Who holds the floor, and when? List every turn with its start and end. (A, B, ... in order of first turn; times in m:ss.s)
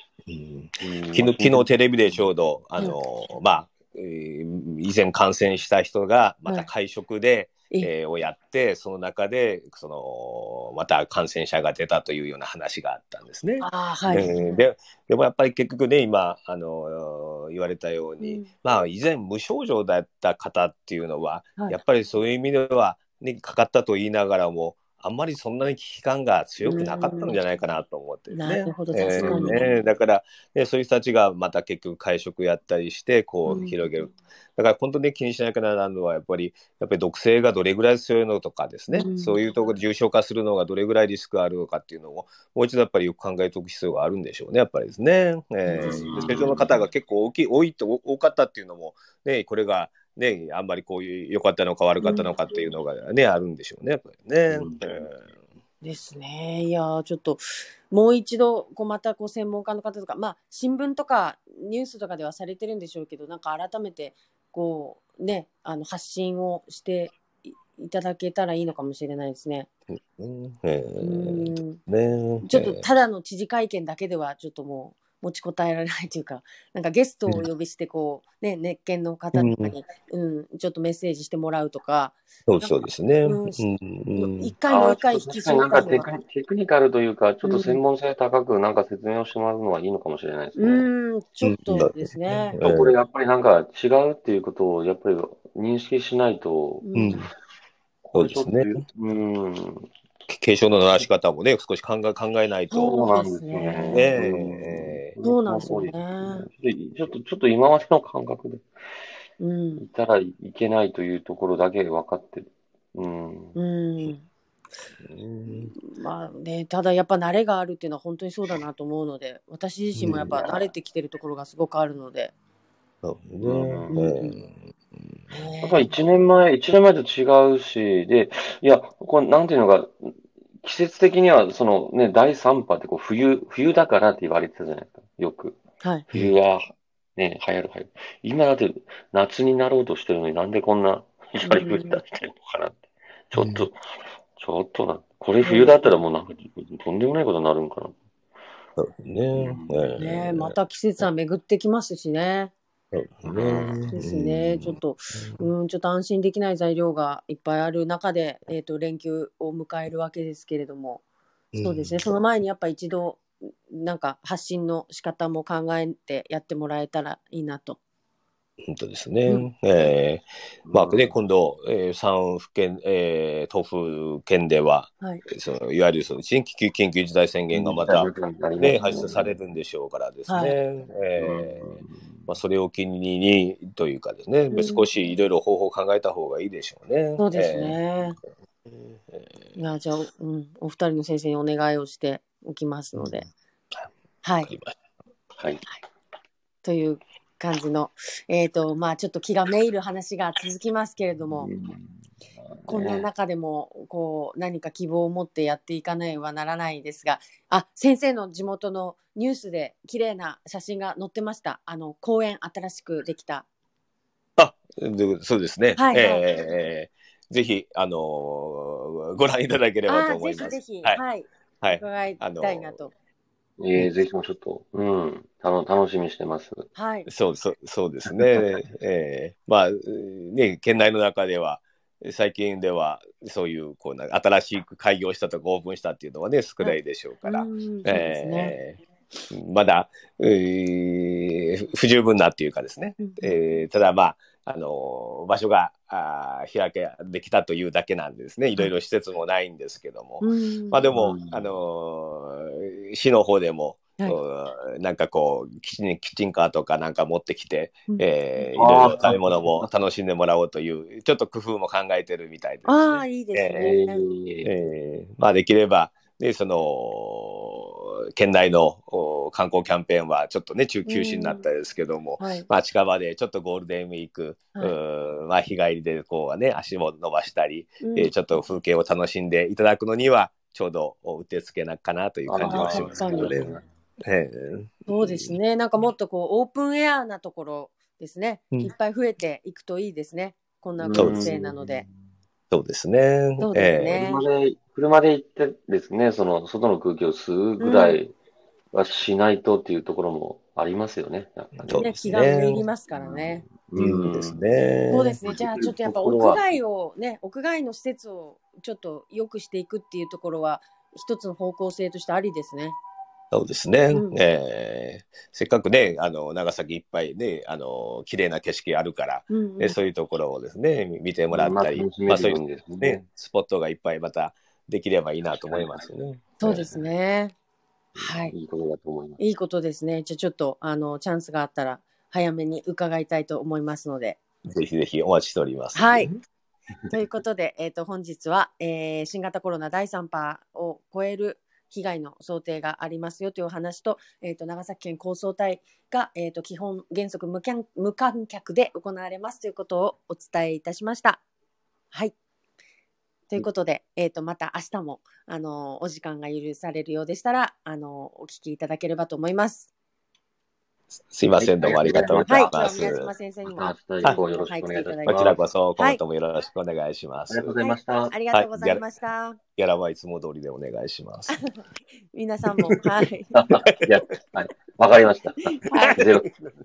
0:00.3-0:55.3 A
0:00.8-0:02.2 B
0:13.6-0:14.6 C
0:18.2-0:18.5 C
0:26.6-0:27.4 C
0:28.3-0:29.8 C
0:29.2-0:29.7 B
0:33.5-0:33.8 C
0:38.9-0:39.4 C
0:45.6-0:46.4 C
0:45.8-0:46.8 B
0:52.0-0:52.7 C
0:54.5-0:54.8 B
0:55.8-1:07.2 C
1:07.7-1:09.7 C
1:09.9-1:12.8 A
1:11.0-1:11.8 C
1:12.4-1:26.1 C
1:19.3-1:19.7 A
1:22.5-1:24.5 A
1:24.7-1:30.9 B
1:27.4-1:27.8 C
1:30.6-1:32.6 C
1:31.4-1:33.0 A
1:32.6-1:37.3 B
1:36.8-1:37.3 C
1:37.0-1:37.3 A
1:38.1-1:39.9 B
1:38.2-1:38.8 A
1:40.3-1:43.0 A
1:42.7-1:44.1 C
1:42.8-1:48.7 B
1:43.9-1:45.1 A
1:45.2-1:46.5 C
1:49.4-1:49.8 C
1:49.8-1:53.6 B
1:53.6-1:54.3 C
1:55.0-1:55.8 A
1:55.8-2:02.3 C
2:00.0-2:00.3 A
2:00.2-2:00.6 B
2:03.0-2:05.1 A
2:03.4-2:03.9 B
2:03.9-2:04.4 C
2:05.3-2:05.9 C
2:05.6-2:15.6 B
2:15.8-2:16.1 C
2:16.1-2:23.8 B
2:21.4-2:22.0 C
2:23.3-2:23.7 A
2:24.4-2:27.9 B
2:25.4-2:25.9 C
2:28.8-2:30.6 A
2:29.3-2:29.9 B
2:30.0-2:32.5 C
2:32.9-2:35.5 A
2:33.2-2:33.9 B
2:33.8-2:41.0 C
2:41.5-2:42.1 A
2:41.6-2:47.8 C
2:48.7-3:07.8 A
2:50.7-2:51.2 B
2:57.5-2:59.3 B
3:00.3-3:00.6 C
3:01.2-3:02.0 B
3:04.5-3:04.9 C
3:07.2-3:08.2 C
3:08.7-3:09.4 A
3:09.6-3:13.3 C
3:13.0-3:13.2 A
3:14.2-3:14.5 C
3:14.4-3:14.8 A
3:16.6-3:21.5 C
3:21.3-3:23.1 B
3:22.7-3:33.5 C
3:34.4-3:41.0 A
3:35.8-3:36.3 C
3:39.9-3:42.9 C
3:41.6-3:42.8 A
3:43.6-3:46.7 B
3:46.8-3:47.1 C
3:47.1-3:58.8 A
3:48.1-3:48.4 B
3:56.6-3:58.6 C
3:59.3-4:23.7 A
4:03.0-4:03.7 C
4:10.2-4:10.8 C
4:10.9-4:11.6 B
4:17.9-4:18.5 C
4:18.6-4:19.7 B
4:22.7-4:24.0 C
4:23.6-4:24.5 B
4:24.4-4:43.5 A
4:30.8-4:31.5 C
4:32.2-4:32.5 C
4:37.8-4:38.2 C
4:42.3-4:43.6 B
4:42.4-4:43.5 C
4:44.0-4:45.4 A
4:44.9-4:51.8 C
4:50.8-4:51.9 B
4:50.9-4:51.3 A
4:52.5-4:54.0 A
4:53.4-4:54.2 C
4:53.9-4:58.2 B
4:57.6-4:58.0 C
4:58.7-5:04.4 B
5:01.6-5:02.6 A
5:01.7-5:03.5 C
5:03.8-5:05.2 A
5:04.9-5:12.8 C
5:05.2-5:06.5 B
5:13.3-5:26.7 A
5:13.9-5:14.2 C
5:19.3-5:19.8 C
5:21.3-5:23.0 B
5:25.3-5:25.9 B
5:26.4-5:27.3 C
5:26.4-5:26.8 B
5:28.0-5:29.2 B
5:28.0-5:28.4 C
5:29.2-5:34.2 C
5:34.5-5:36.1 A
5:35.8-5:36.1 C
5:36.9-5:51.2 C
5:53.3-5:59.7 C
6:01.1-6:03.1 A
6:01.4-6:02.6 B
6:02.2-6:06.0 C
6:03.4-6:05.4 B
6:05.0-6:07.6 A
6:07.3-6:08.1 B
6:07.6-6:09.4 C
6:08.3-6:08.8 A
6:09.6-6:11.4 A
6:12.1-6:13.4 C
6:13.4-6:16.3 B
6:15.5-6:16.1 C